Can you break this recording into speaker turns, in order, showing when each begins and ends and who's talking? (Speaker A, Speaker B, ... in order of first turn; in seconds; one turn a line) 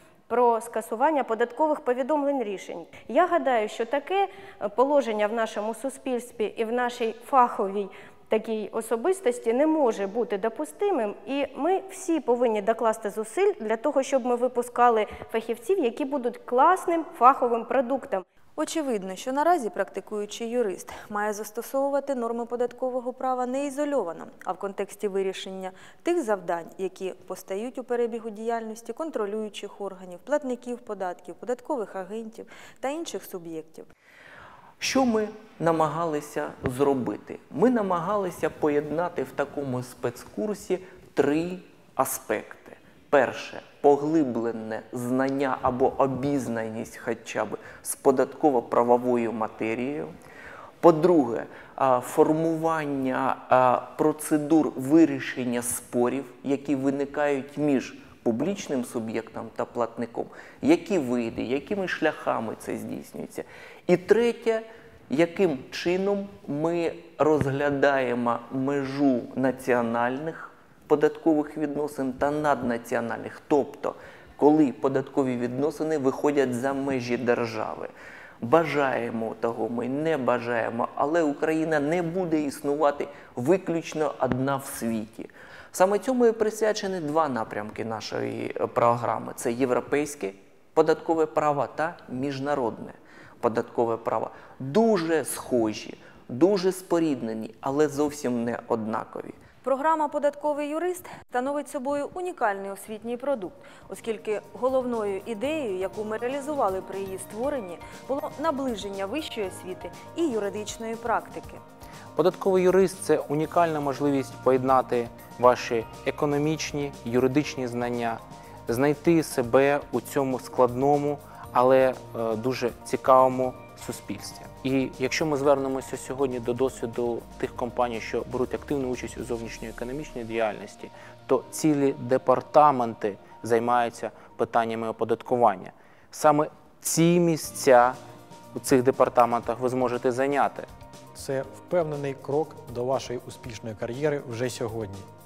Speaker A: 0.3-18.2
Speaker B: 18.6-33.9
Speaker C: 34.8-50.1
Speaker C: 50.8-99.4
Speaker B: 99.6-111.6
Speaker D: 112.2-138.0
Speaker D: 138.5-140.7
Speaker E: 141.1-145.1